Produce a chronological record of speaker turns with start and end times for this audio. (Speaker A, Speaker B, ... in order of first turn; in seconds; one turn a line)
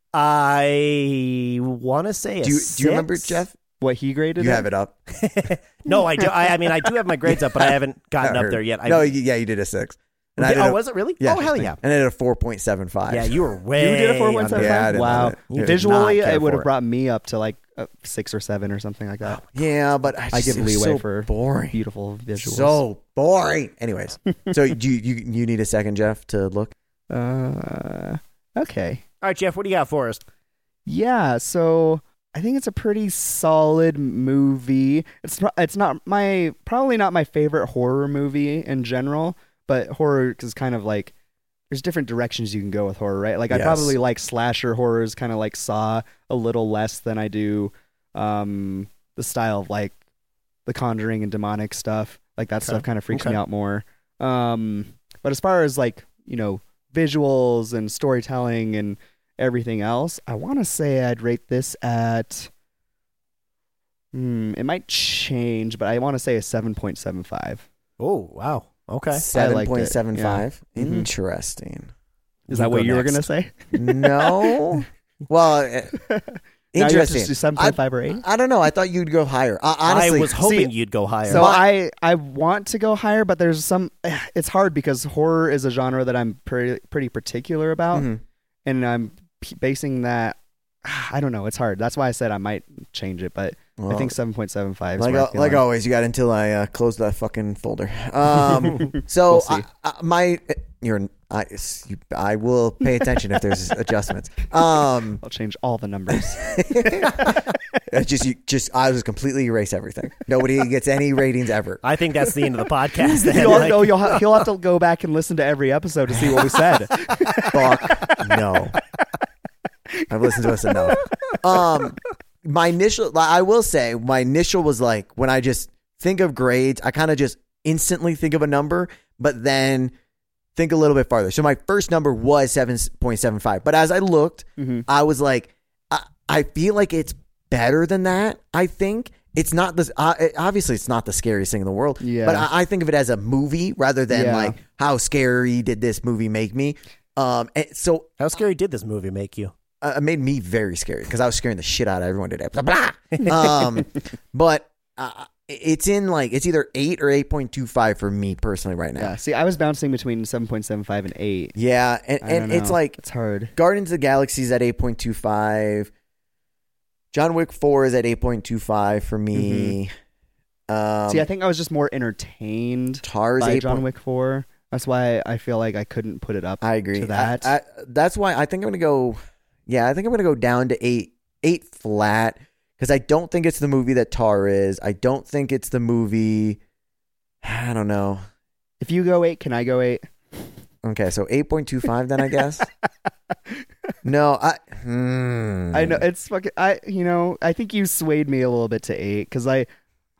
Speaker A: 0.1-3.4
Speaker B: 2.4-3.5
Speaker C: 3.8-4.7
Speaker B: 4.4-4.9
Speaker A: 5.1-9.1
Speaker B: 7.3-13.4
Speaker A: 10.4-11.8
Speaker A: 13.1-16.7
Speaker C: 13.7-19.4
Speaker B: 14.5-15.9
Speaker B: 19.5-21.8
Speaker C: 20.3-22.8
Speaker B: 22.4-26.7
Speaker C: 27.1-29.0
Speaker A: 29.2-30.2
Speaker C: 30.9-41.1
Speaker C: 41.7-50.0
Speaker B: 43.5-43.9
Speaker C: 50.6-62.5
Speaker A: 52.6-53.4
Speaker C: 64.1-67.6
Speaker A: 68.0-69.2
Speaker B: 69.1-71.9
Speaker C: 69.3-71.1
Speaker C: 72.5-74.8
Speaker A: 72.5-73.3
Speaker B: 73.7-76.0
Speaker C: 76.1-78.2
Speaker B: 76.7-80.7
Speaker A: 79.8-81.5
Speaker C: 81.2-88.1
Speaker B: 81.3-81.7
Speaker B: 87.9-88.2
Speaker C: 88.6-95.6
Speaker B: 93.8-94.1
Speaker B: 95.0-105.2
Speaker C: 98.5-99.6
Speaker C: 105.2-107.4
Speaker B: 106.1-111.8
Speaker A: 111.8-114.2
Speaker C: 113.2-118.8
Speaker B: 117.4-118.8
Speaker B: 120.1-129.9
Speaker C: 120.3-121.9
Speaker B: 130.6-148.1
Speaker C: 134.6-134.9
Speaker C: 142.0-142.5
Speaker C: 144.1-144.6
Speaker A: 148.2-149.5
Speaker B: 149.8-159.2
Speaker C: 159.0-161.5
Speaker B: 161.6-163.0
Speaker C: 162.2-163.5
Speaker B: 163.5-165.9
Speaker B: 167.1-169.9
Speaker C: 169.3-169.7
Speaker B: 170.7-171.3
Speaker C: 171.1-177.5
Speaker B: 173.0-173.8
Speaker B: 176.6-186.6
Speaker B: 187.4-188.2
Speaker C: 188.8-190.1
Speaker B: 190.8-192.7
Speaker B: 194.0-196.0
Speaker C: 195.7-199.7